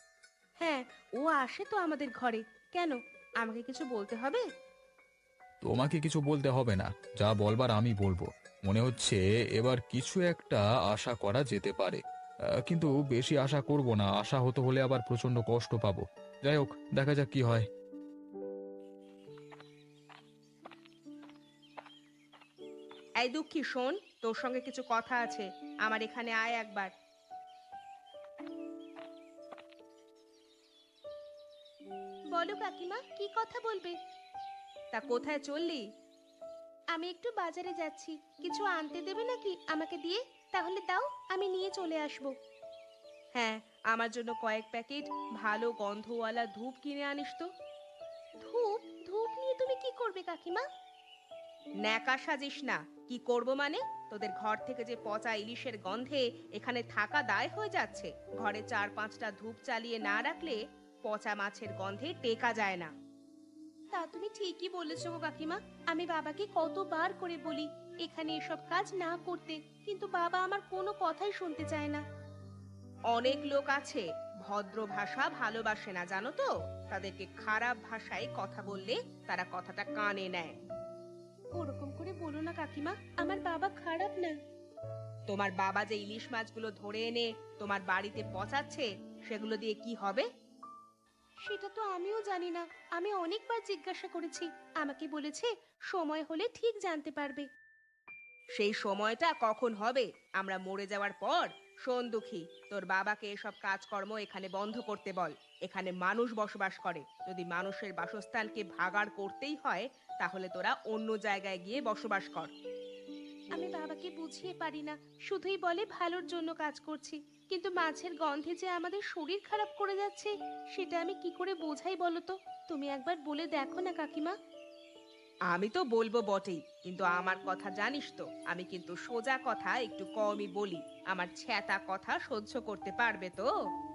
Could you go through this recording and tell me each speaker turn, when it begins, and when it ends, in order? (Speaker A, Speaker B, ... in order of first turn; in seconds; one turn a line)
Speaker A: 0.6-4.4
Speaker B: 5.6-12.0
Speaker B: 12.6-17.7
Speaker C: 23.2-26.9
Speaker A: 32.3-34.0
Speaker C: 35.0-35.8
Speaker A: 36.9-42.3
Speaker C: 43.4-47.5
Speaker A: 48.4-50.6
Speaker C: 51.8-62.9
Speaker A: 63.9-72.0
Speaker C: 73.1-80.5
Speaker A: 81.5-84.3
Speaker C: 85.3-90.3
Speaker A: 91.4-97.5
Speaker C: 98.6-112.5
Speaker A: 113.5-124.3
Speaker C: 125.5-133.5